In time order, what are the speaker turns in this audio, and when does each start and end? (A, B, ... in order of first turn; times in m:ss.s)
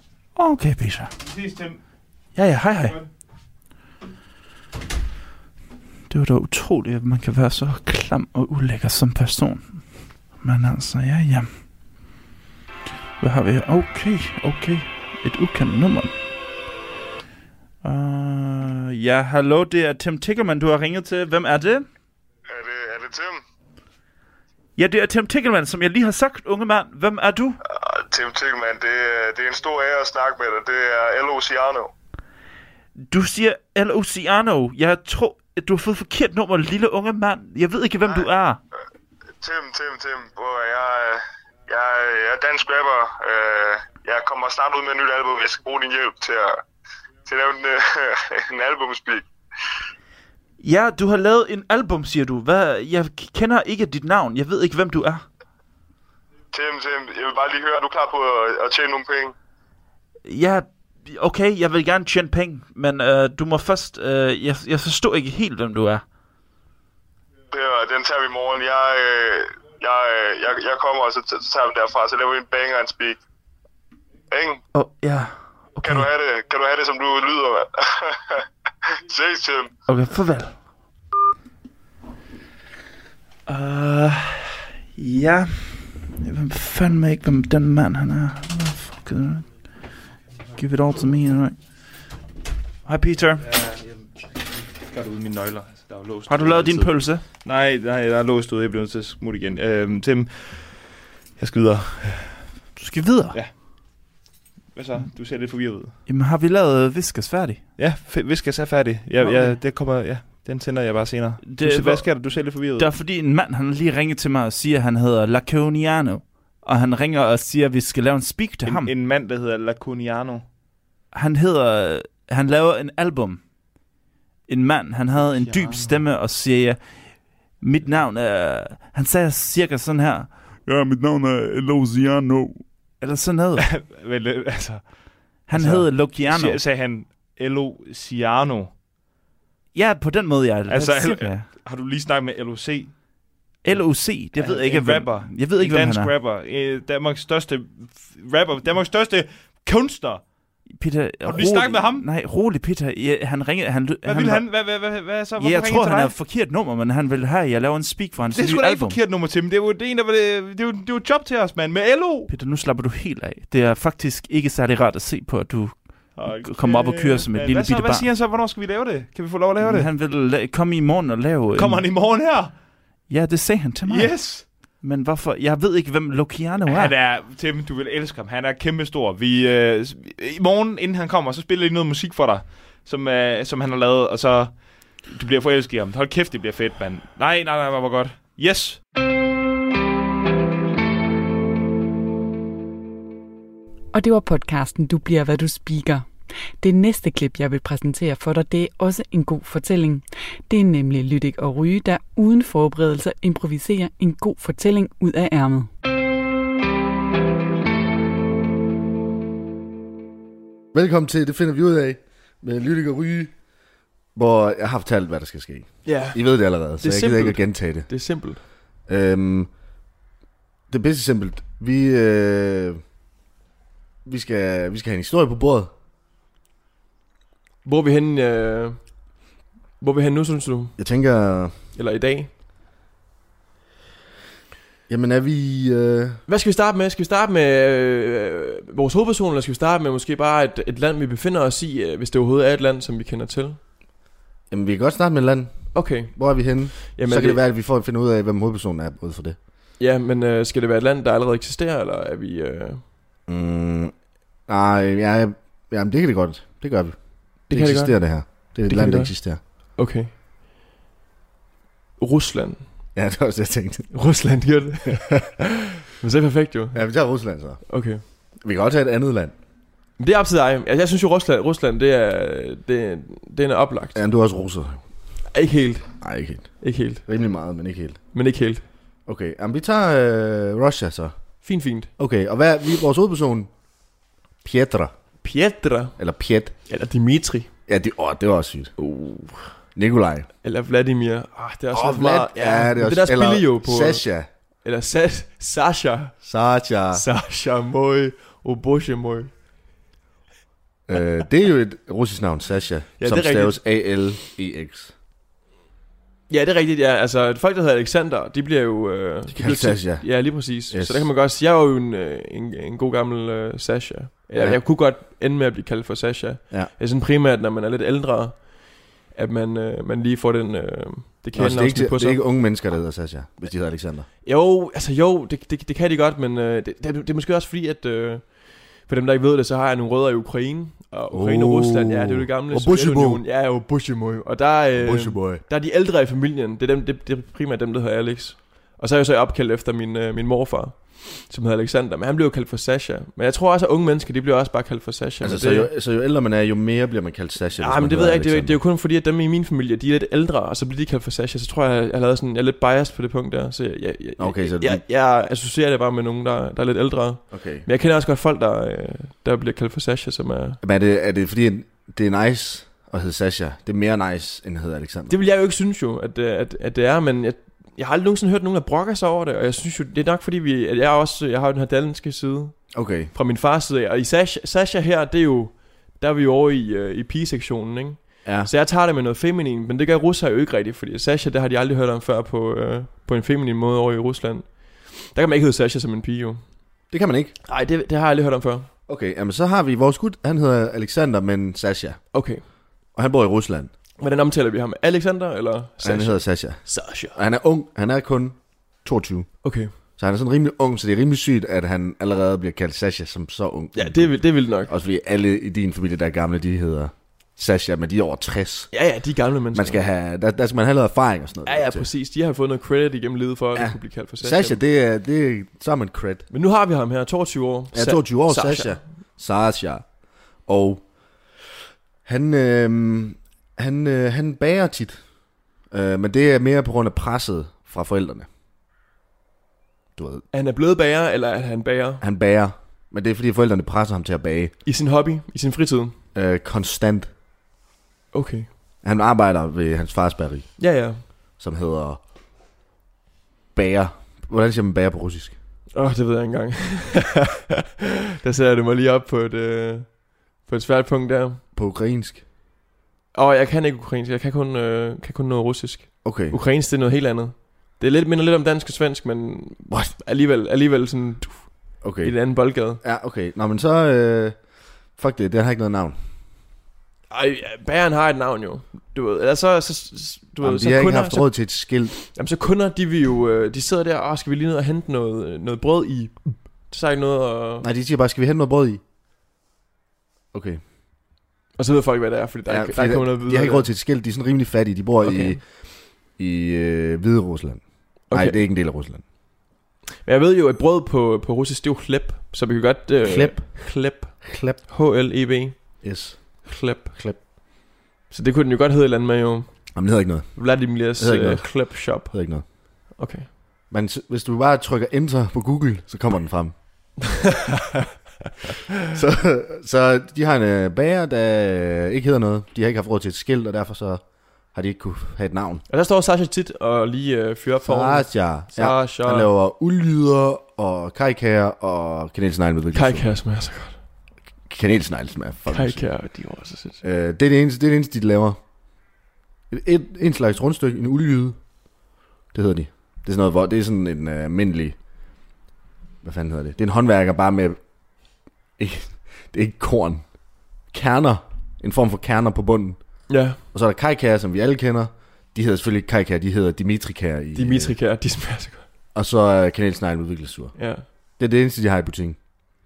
0:00.4-0:01.1 A
0:01.2-0:01.8 B
0:02.3-0:03.0 A
0:02.6-0:03.1 B
0:06.1-0:09.8 A
0:10.4-0:11.5 A
0:13.2-0:16.2 A
0:17.8-0:21.8 A
0:22.5-0:23.4 C
0:24.8-0:27.6 A
0:27.6-0:31.9 C
0:33.0-0:38.6 A
0:39.4-0:46.6 C
0:47.2-0:49.2 C
0:50.6-0:55.2 A
0:56.5-0:59.3 C
1:00.2-1:06.0 A
1:07.5-1:13.2 C
1:14.3-1:14.6 C
1:14.7-1:16.1 A
1:15.8-1:18.4 C
1:19.1-1:19.7 C
1:19.9-1:20.5 A
1:23.5-1:29.7 A
1:30.6-1:31.6 A
1:32.8-1:33.4 A
1:33.4-1:34.1 B
1:34.8-1:42.6 B
1:36.3-1:37.2 A
1:42.8-1:43.4 A
1:44.7-1:46.0 B
1:46.0-1:47.6 A
1:47.8-1:52.9 B
1:49.2-1:49.6 A
1:51.4-1:58.9 A
1:58.6-2:00.4 B
2:01.1-2:03.4 A
2:04.5-2:13.7 A
2:05.2-2:06.0 B
2:13.6-2:18.7 B
2:15.5-2:16.6 A
2:19.7-2:21.5 A
2:20.7-2:30.2 B
2:23.6-2:26.1 A
2:30.7-2:34.7 A
2:31.2-2:32.0 B
2:34.0-2:36.2 B
2:35.4-2:39.0 A
2:38.3-2:42.3 B
2:42.3-2:48.1 A
2:46.1-2:49.9 B
2:49.6-2:51.8 A
2:51.5-2:52.6 B
2:53.1-2:56.9 A
2:53.8-2:54.5 B
2:56.7-3:08.8 B
3:13.9-3:16.1 D
3:16.6-3:25.7 D
3:30.7-3:33.3 E
3:34.1-3:37.9 E
3:35.8-3:38.4 F
3:38.8-3:39.5 E
3:40.7-3:42.8 E
3:44.0-3:45.7 E
3:47.6-3:49.1 F
3:49.8-3:50.8 F
3:50.8-3:51.6 E
3:51.7-3:52.3 F
3:54.9-3:56.2 E
3:56.3-4:03.6 F
4:04.5-4:09.4 E
4:05.7-4:07.4 F
4:09.8-4:12.8 F
4:13.3-4:13.9 E
4:14.4-4:19.4 E
4:17.5-4:20.1 F
4:22.0-4:22.8 F
4:22.9-4:23.9 E
4:23.9-4:25.4 F
4:26.0-4:28.0 F
4:26.7-4:29.3 E
4:30.0-4:34.0 F
4:33.9-4:34.8 E
4:35.3-4:35.9 F
4:36.0-4:38.0 E
4:36.6-4:37.0 F
4:38.1-4:38.6 F
4:39.0-4:41.4 E
4:41.4-4:41.9 F
4:42.0-4:43.5 E
4:44.4-4:44.9 E
4:45.2-4:46.0 F
4:46.0-4:46.5 E
4:46.7-4:47.5 F
4:47.7-4:48.7 E
4:48.8-4:49.6 F
4:49.7-4:50.3 E
4:50.4-4:54.0 F
4:51.7-4:54.3 E
4:54.6-4:56.2 F
4:56.2-4:57.0 E
4:56.9-4:59.3 F
5:00.9-5:04.9 E
5:03.0-5:03.6 F
5:06.3-5:22.2 F
5:09.3-5:11.1 E
5:14.3-5:14.6 E
5:21.3-5:24.1 E
5:24.2-5:45.7 F
5:31.1-5:33.2 E
5:34.8-5:35.4 E
5:45.2-5:48.6 E
5:47.6-6:00.6 F
5:54.2-5:54.8 E
5:57.3-5:57.7 E
6:00.6-6:05.2 E
6:05.1-6:26.4 F
6:12.7-6:13.1 E
6:18.2-6:18.5 E
6:26.9-6:27.3 E
6:27.5-6:28.7 F
6:28.9-6:32.0 E
6:32.1-6:32.4 F
6:32.9-6:33.7 E
6:34.0-6:37.2 F
6:35.8-6:48.7 E
6:39.4-6:39.7 F
6:43.7-6:44.7 F
6:48.7-6:49.8 F
6:49.5-6:51.9 E
6:51.4-6:54.6 F
6:53.5-6:56.2 E
6:56.3-6:58.8 F
6:57.7-6:59.8 E
7:00.4-7:00.8 E
7:02.0-7:05.0 E
7:05.7-7:08.3 E
7:10.0-7:10.2 E
7:10.3-7:12.0 F
7:12.0-7:14.5 E
7:14.6-7:16.0 F
7:16.1-7:17.1 E
7:18.1-7:18.5 F
7:18.8-7:20.6 E
7:20.6-7:21.0 F
7:21.4-7:22.0 E
7:23.5-7:25.3 E
7:25.7-7:27.4 F
7:28.2-7:31.4 F
7:31.5-7:32.2 E
7:33.1-7:42.8 F
7:36.0-7:36.4 E
7:39.7-7:39.9 E
7:41.8-7:44.4 E
7:45.0-7:46.0 E
7:47.1-7:51.3 F
7:50.4-7:52.0 E
7:51.9-7:57.6 F
7:57.6-7:58.8 E
8:00.3-8:00.6 E
8:01.6-8:03.6 F
8:02.5-8:05.4 E
8:05.0-8:05.4 F
8:06.0-8:09.0 E
8:08.1-8:08.4 F
8:10.0-8:15.8 F
8:13.0-8:13.6 E
8:14.2-8:14.6 E
8:15.8-8:17.2 E
8:16.4-8:17.0 F
8:18.1-8:19.8 F
8:19.7-8:22.4 E
8:20.3-8:22.1 F
8:22.9-8:23.3 F
8:23.7-8:26.5 E
8:28.9-8:34.0 E
8:34.5-8:35.6 E
8:35.7-8:39.3 F
8:37.6-8:43.1 E
8:42.7-8:43.8 F
8:44.5-8:45.9 E
8:45.4-8:46.8 F
8:46.8-8:48.4 E
8:49.5-8:51.4 E
8:52.3-8:54.8 E
8:56.0-8:57.6 E
8:58.6-9:00.0 E
9:00.7-9:02.8 E
9:03.1-9:03.4 F
9:03.3-9:07.7 E
9:07.4-9:08.6 F
9:08.9-9:12.2 E
9:10.6-9:10.9 F